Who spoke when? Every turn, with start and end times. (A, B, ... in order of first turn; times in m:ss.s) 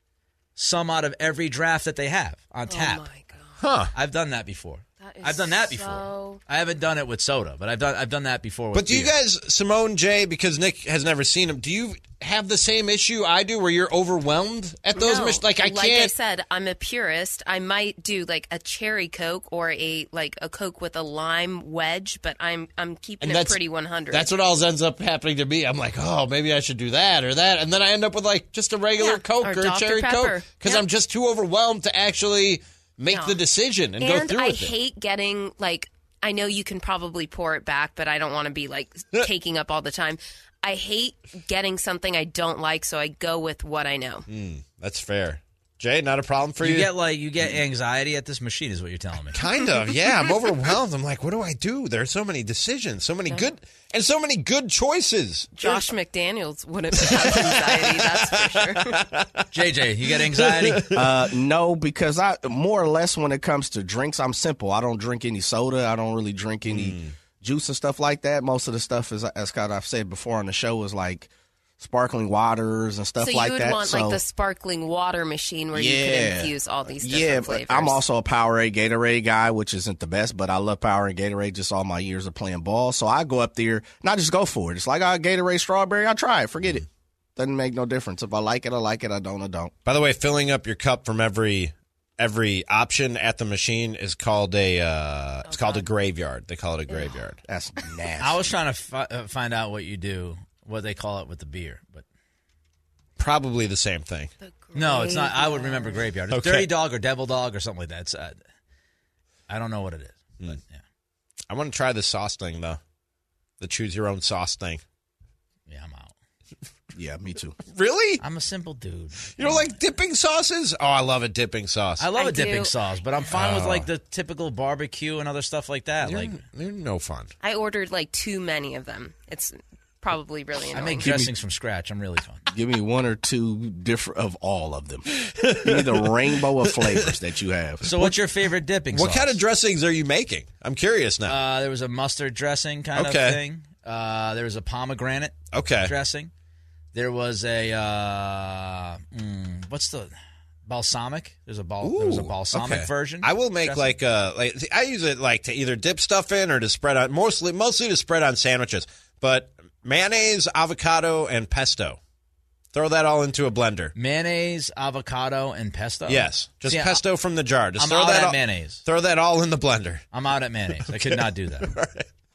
0:00.6-0:03.0 A
0:02.7-0:03.6 B
0:03.6-0:03.9 C
0:03.9-0:09.1 A
0:05.0-0:06.4 B
0:08.7-0:16.1 C
0:14.9-0:24.3 B
0:23.2-0:23.6 C
0:24.1-0:34.7 C
0:29.0-0:30.8 B
0:33.1-0:33.4 B
0:34.0-0:44.2 B
0:44.3-0:46.9 C
0:46.6-0:49.4 A
0:49.3-0:55.8 C
0:55.5-0:59.0 B
0:56.9-0:59.4 C
0:59.5-1:00.8 A
1:00.4-1:01.3 C
1:00.9-1:14.2 D
1:06.6-1:07.1 C
1:13.2-1:18.0 B
1:15.7-1:26.8 D
1:27.4-1:29.7 D
1:29.8-1:37.4 C
1:35.5-1:35.8 B
1:36.9-1:37.2 B
1:37.4-1:38.4 D
1:38.2-1:42.0 A
1:43.2-1:44.3 C
1:44.4-1:46.0 B
1:44.7-1:48.4 A
1:46.3-1:46.7 C
1:49.5-1:50.8 A
1:51.5-1:52.8 C
1:53.6-1:54.8 C
1:55.7-1:56.1 A
1:56.9-1:57.6 D
1:57.6-1:58.2 C
1:58.2-1:59.7 A
1:59.3-2:02.1 C
2:02.0-2:06.4 A
2:02.1-2:02.7 B
2:03.3-2:03.9 C
2:06.0-2:07.3 C
2:07.4-2:11.1 B
2:10.7-2:12.4 A
2:11.0-2:11.3 D
2:12.5-2:17.9 D
2:15.1-2:17.2 C
2:17.8-2:19.4 A
2:18.9-2:21.4 C
2:21.3-2:26.3 A
2:23.0-2:23.4 C
2:25.5-2:25.9 C
2:26.9-2:30.1 A
2:30.7-2:34.0 A
2:31.8-2:42.0 C
2:42.7-2:43.9 C
2:44.0-2:47.0 A
2:46.1-2:50.1 C
2:47.8-2:48.8 A
2:50.1-2:51.7 A
2:50.8-2:52.1 C